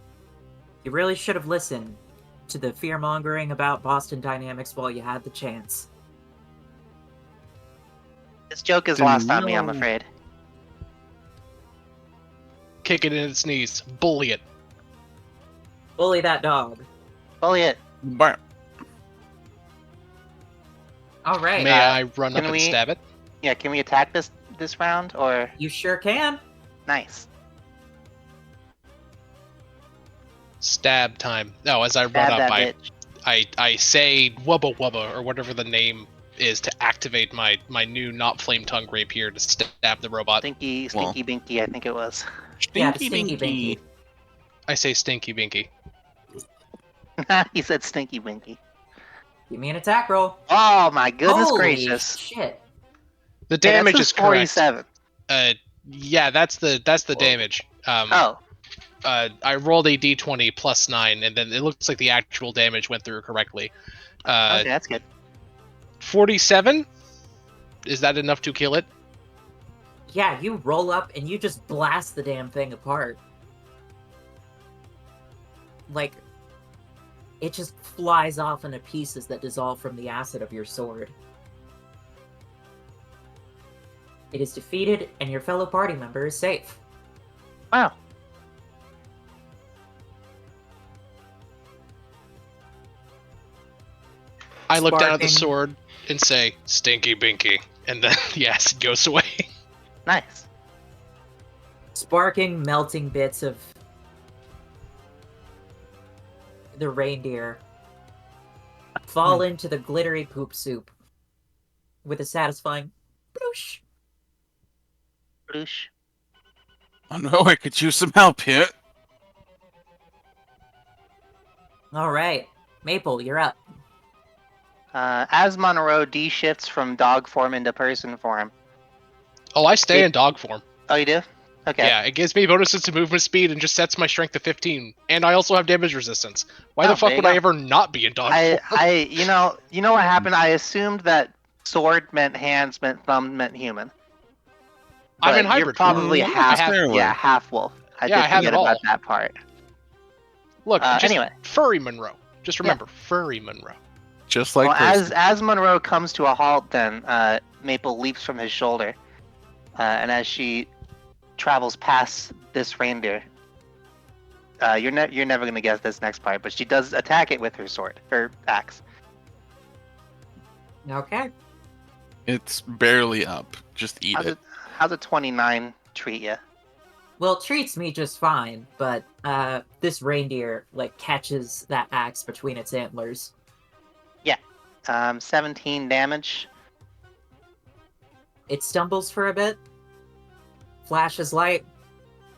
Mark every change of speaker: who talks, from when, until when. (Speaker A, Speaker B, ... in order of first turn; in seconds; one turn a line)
Speaker A: 0.8-5.9
Speaker B: 8.5-10.1
Speaker C: 9.0-9.6
Speaker D: 12.8-14.4
Speaker A: 16.0-16.9
Speaker B: 17.4-17.8
Speaker C: 18.0-18.4
Speaker A: 21.2-21.8
Speaker D: 21.6-23.0
Speaker B: 21.7-22.8
Speaker B: 23.4-25.5
Speaker A: 25.6-26.4
Speaker B: 26.9-27.3
Speaker D: 30.6-32.7
Speaker B: 32.1-32.9
Speaker D: 33.3-40.4
Speaker B: 40.4-42.3
Speaker C: 42.6-43.8
Speaker A: 42.8-43.8
Speaker D: 44.7-45.7
Speaker B: 47.2-48.6
Speaker A: 49.5-50.4
Speaker B: 50.5-52.2
Speaker A: 51.2-52.6
Speaker D: 53.5-54.6
Speaker B: 53.6-54.9
Speaker D: 55.3-58.3
Speaker C: 57.1-57.4
Speaker B: 58.1-58.4
Speaker D: 59.0-63.7
Speaker D: 64.3-64.7
Speaker B: 64.5-65.0
Speaker D: 66.0-66.9
Speaker D: 67.9-68.9
Speaker A: 70.1-73.2
Speaker A: 75.9-76.2
Speaker A: 77.4-81.1
Speaker A: 84.3-86.8
Speaker D: 94.7-99.4
Speaker A: 94.7-95.5
Speaker B: 100.1-100.5
Speaker A: 102.0-103.7
Speaker A: 106.7-107.6
Speaker A: 109.1-110.9
Speaker A: 112.0-113.8
Speaker B: 115.5-115.9
Speaker C: 117.1-118.7
Speaker A: 121.9-123.6
Speaker B: 124.9-128.5
Speaker D: 129.6-130.6
Speaker B: 130.9-131.9
Speaker D: 131.8-138.8
Speaker B: 136.8-137.4
Speaker B: 138.3-143.9
Speaker D: 145.2-146.8
Speaker B: 145.2-149.3
Speaker C: 145.8-147.2
Speaker D: 148.1-148.8
Speaker D: 150.7-153.8
Speaker B: 150.8-151.3
Speaker C: 154.3-155.1
Speaker B: 154.6-159.0
Speaker B: 159.8-160.7
Speaker B: 161.4-163.2
Speaker B: 164.6-168.8
Speaker A: 170.8-171.3
Speaker C: 172.3-174.3
Speaker B: 174.1-176.4
Speaker A: 177.2-183.3
Speaker B: 184.2-186.5
Speaker A: 188.5-189.6
Speaker A: 190.8-191.7